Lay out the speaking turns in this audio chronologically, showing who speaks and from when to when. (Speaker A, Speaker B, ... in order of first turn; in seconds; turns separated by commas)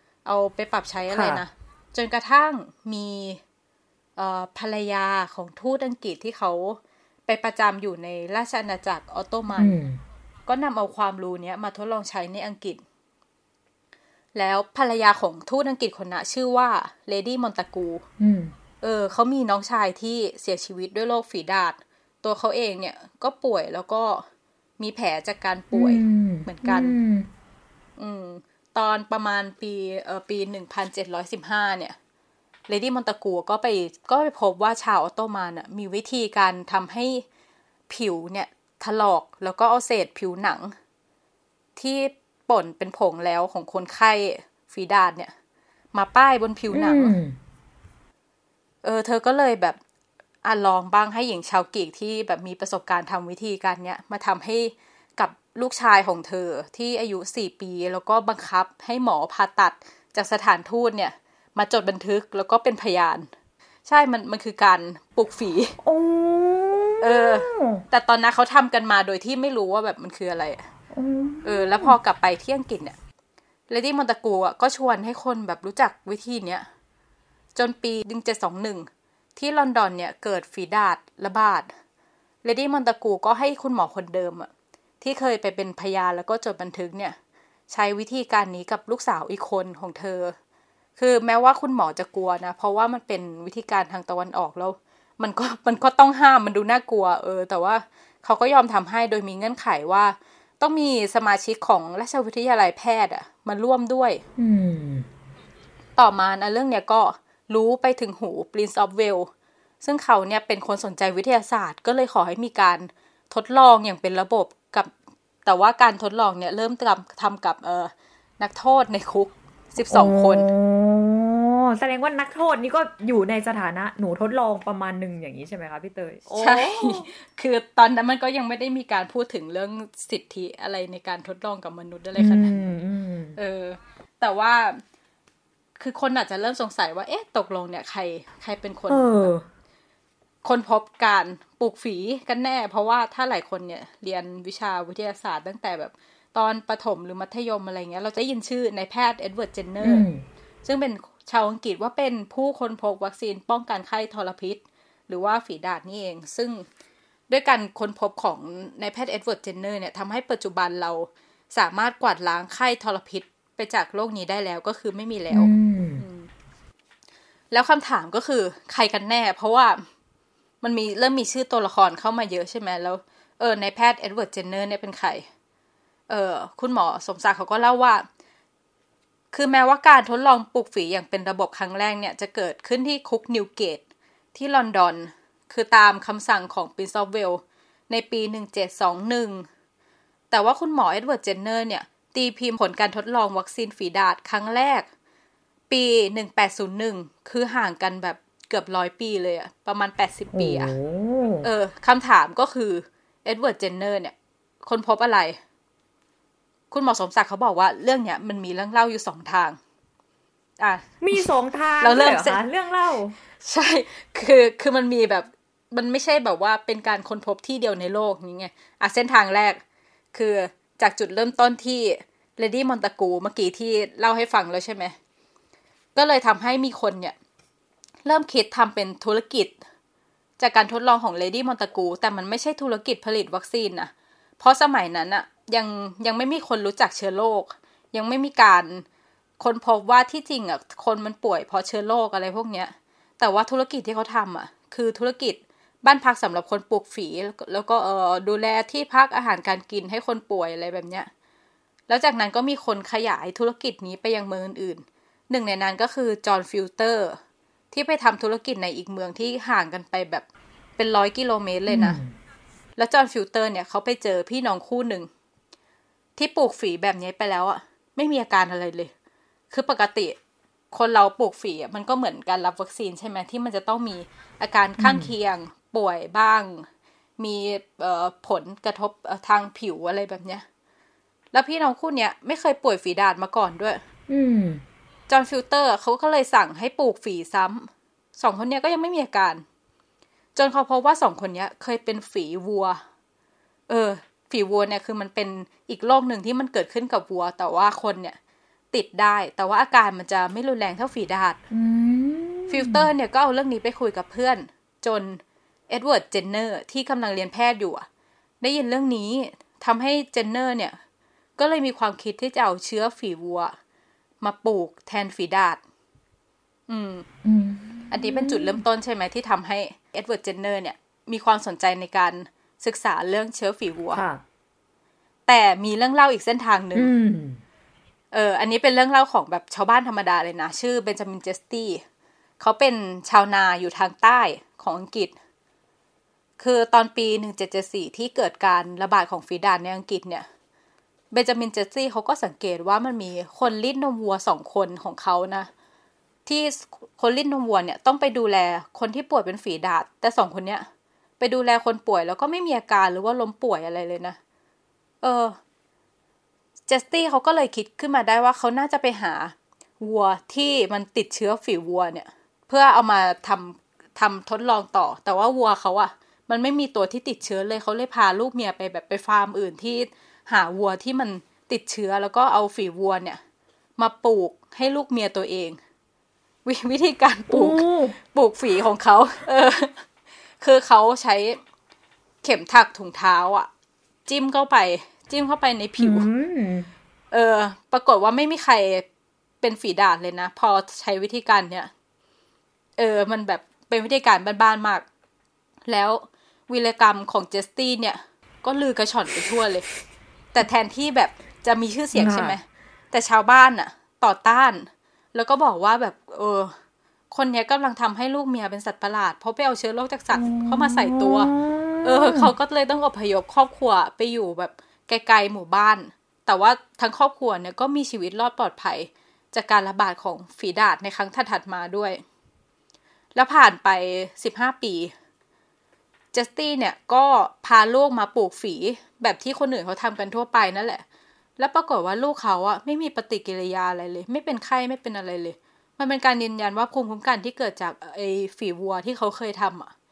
Speaker A: 0.2-3.4, Speaker B: 1.1-1.4, Speaker A: 4.2-9.8, Speaker B: 9.6-10.0, Speaker A: 10.4-12.8, Speaker A: 14.3-18.0, Speaker B: 18.2-18.5, Speaker A: 18.8-24.3, Speaker A: 24.8-27.0, Speaker B: 25.7-27.3, Speaker A: 28.0-31.9, Speaker A: 32.7-37.2, Speaker A: 37.9-40.7, Speaker A: 41.8-45.3, Speaker A: 45.9-47.1, Speaker B: 46.7-47.4, Speaker A: 48.8-49.8, Speaker A: 50.4-63.3, Speaker A: 63.9-65.8, Speaker B: 65.8-67.8, Speaker A: 67.0-70.7, Speaker B: 70.9-71.9, Speaker A: 71.4-73.0, Speaker A: 73.7-76.7, Speaker A: 77.5-81.7, Speaker A: 82.4-84.5, Speaker A: 85.0-87.2, Speaker A: 87.7-90.3, Speaker A: 91.0-104.2, Speaker B: 104.4-105.0, Speaker A: 106.0-109.3, Speaker A: 109.8-114.9, Speaker A: 115.4-120.5, Speaker B: 119.9-127.1, Speaker A: 126.4-132.6, Speaker B: 132.2-133.4, Speaker A: 133.3-134.8, Speaker A: 135.8-139.3, Speaker B: 138.9-139.4, Speaker A: 140.4-150.1, Speaker B: 149.8-150.2, Speaker A: 150.6-156.7, Speaker A: 157.3-166.3, Speaker B: 165.3-166.0, Speaker A: 167.5-169.8, Speaker A: 170.6-175.3, Speaker A: 176.1-178.1, Speaker A: 179.3-183.8, Speaker A: 184.3-189.5, Speaker A: 190.3-194.9, Speaker A: 195.7-200.7, Speaker B: 200.3-201.5, Speaker A: 201.4-205.4, Speaker A: 206.7-209.6, Speaker A: 210.6-211.3, Speaker B: 211.0-213.2, Speaker A: 211.8-212.4, Speaker A: 213.4-219.6, Speaker A: 220.1-224.9, Speaker A: 225.9-227.2, Speaker A: 228.0-229.6, Speaker A: 230.4-238.8, Speaker A: 239.4-251.1, Speaker A: 251.9-257.2, Speaker A: 257.7-260.2, Speaker A: 260.8-262.0, Speaker B: 261.7-262.1, Speaker A: 262.8-265.1, Speaker A: 266.1-268.9, Speaker A: 269.5-270.1, Speaker A: 270.7-276.7, Speaker B: 274.8-275.1, Speaker A: 277.2-280.4, Speaker A: 281.3-283.8, Speaker B: 284.1-284.6, Speaker A: 285.1-289.4, Speaker A: 290.3-292.8, Speaker A: 293.7-298.2, Speaker A: 298.7-301.4, Speaker B: 301.5-302.9, Speaker A: 302.5-307.9, Speaker A: 308.4-310.8, Speaker A: 311.4-313.6, Speaker A: 314.2-315.6, Speaker A: 316.7-317.1, Speaker B: 317.2-318.6, Speaker A: 317.9-324.0, Speaker B: 323.9-324.2, Speaker A: 325.3-326.9, Speaker B: 326.7-327.4, Speaker A: 328.1-331.8, Speaker A: 332.4-335.1, Speaker A: 336.4-340.2, Speaker A: 341.1-345.5, Speaker A: 346.2-350.6, Speaker A: 351.2-354.2, Speaker A: 355.0-355.4, Speaker A: 356.7-373.2, Speaker A: 373.8-375.6, Speaker A: 376.4-379.9, Speaker B: 377.3-377.9, Speaker A: 380.4-381.4, Speaker A: 382.2-383.5, Speaker A: 384.1-386.1, Speaker B: 385.8-386.7, Speaker A: 387.1-388.9, Speaker A: 389.4-391.7, Speaker A: 392.8-394.8, Speaker A: 395.7-399.6, Speaker A: 400.3-406.6, Speaker B: 401.9-402.4, Speaker A: 407.1-411.3, Speaker B: 410.1-412.3, Speaker A: 411.8-422.0, Speaker A: 423.1-424.9, Speaker A: 426.1-430.8, Speaker A: 431.4-439.7